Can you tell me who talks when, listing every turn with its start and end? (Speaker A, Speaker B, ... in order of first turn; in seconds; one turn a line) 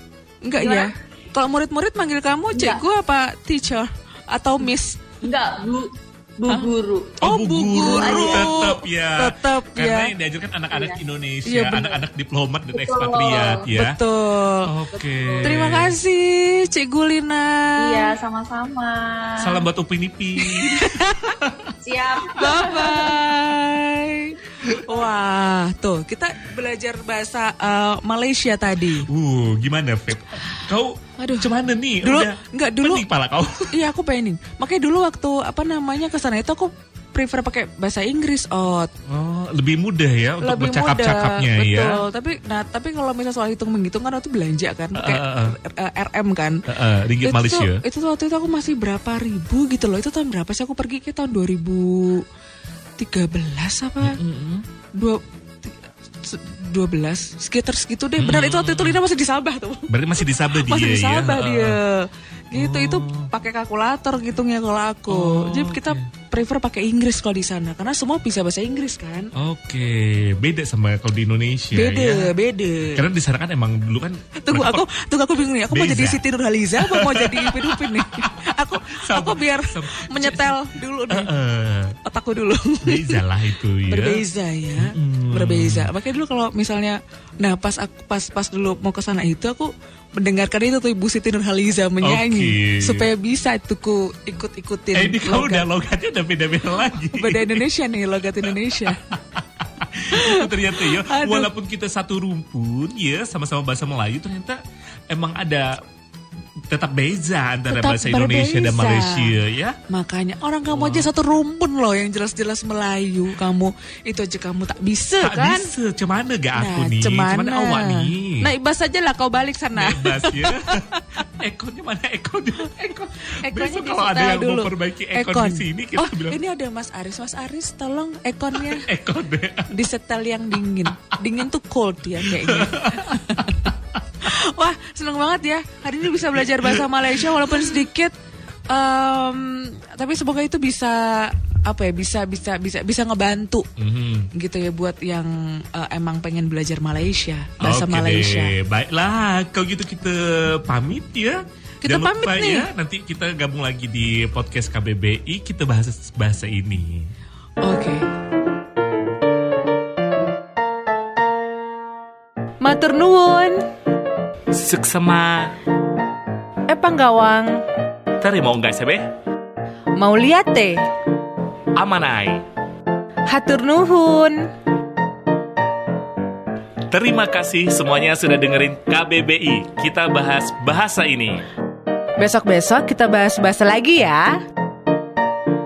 Speaker A: 0.4-5.0
Speaker B: 0.6-0.9
Speaker B: 2.5-2.8
Speaker B: 5.2-7.2
Speaker A: 7.2-10.1
Speaker C: 7.2-14.0
Speaker B: 7.8-8.6
Speaker B: 10.7-11.0
Speaker A: 11.4-12.0
Speaker B: 12.7-13.7
Speaker A: 13.7-14.7
Speaker C: 14.6-16.0
Speaker B: 15.0-15.6
Speaker A: 15.4-18.1
Speaker B: 17.8-19.6
Speaker C: 19.4-21.7
Speaker A: 20.6-21.4
Speaker B: 21.8-23.2
Speaker A: 22.3-29.1
Speaker C: 29.0-33.7
Speaker A: 31.2-33.0
Speaker A: 33.7-38.9
Speaker C: 39.1-42.0
Speaker A: 40.4-46.6
Speaker C: 44.9-45.5
Speaker C: 46.7-47.8
Speaker A: 47.2-52.2
Speaker A: 53.0-54.2
Speaker C: 54.0-54.6
Speaker A: 55.0-69.3
Speaker C: 58.2-59.0
Speaker C: 59.9-61.8
Speaker C: 62.5-63.3
Speaker C: 65.1-66.1
Speaker C: 69.3-72.3
Speaker A: 71.7-73.0
Speaker C: 72.9-74.8
Speaker A: 74.4-81.3
Speaker C: 75.7-76.2
Speaker C: 76.8-78.3
Speaker C: 78.8-82.0
Speaker A: 82.0-83.2
Speaker C: 82.8-84.2
Speaker A: 83.9-95.7
Speaker C: 84.7-85.9
Speaker C: 92.0-93.1
Speaker C: 94.9-97.6
Speaker A: 97.1-99.0
Speaker C: 98.5-104.6
Speaker A: 100.1-101.5
Speaker C: 105.1-105.8
Speaker C: 106.7-109.8
Speaker A: 107.7-109.3
Speaker A: 109.9-115.7
Speaker C: 110.7-111.1
Speaker C: 115.2-118.5
Speaker A: 116.5-121.2
Speaker C: 119.7-126.4
Speaker A: 122.6-122.9
Speaker A: 123.4-128.9
Speaker C: 128.6-129.7
Speaker A: 129.7-138.1
Speaker C: 132.2-133.8
Speaker C: 136.2-136.9
Speaker C: 137.4-137.8
Speaker A: 138.7-143.7
Speaker C: 143.8-144.3
Speaker A: 144.3-148.5
Speaker C: 147.6-157.1
Speaker A: 151.8-152.7
Speaker A: 157.6-158.1
Speaker A: 162.6-163.6
Speaker C: 164.5-165.5
Speaker A: 166.7-167.6
Speaker C: 168.2-169.1
Speaker A: 170.0-170.8
Speaker C: 171.7-172.4
Speaker A: 173.3-174.5
Speaker C: 176.9-181.4
Speaker A: 182.2-184.4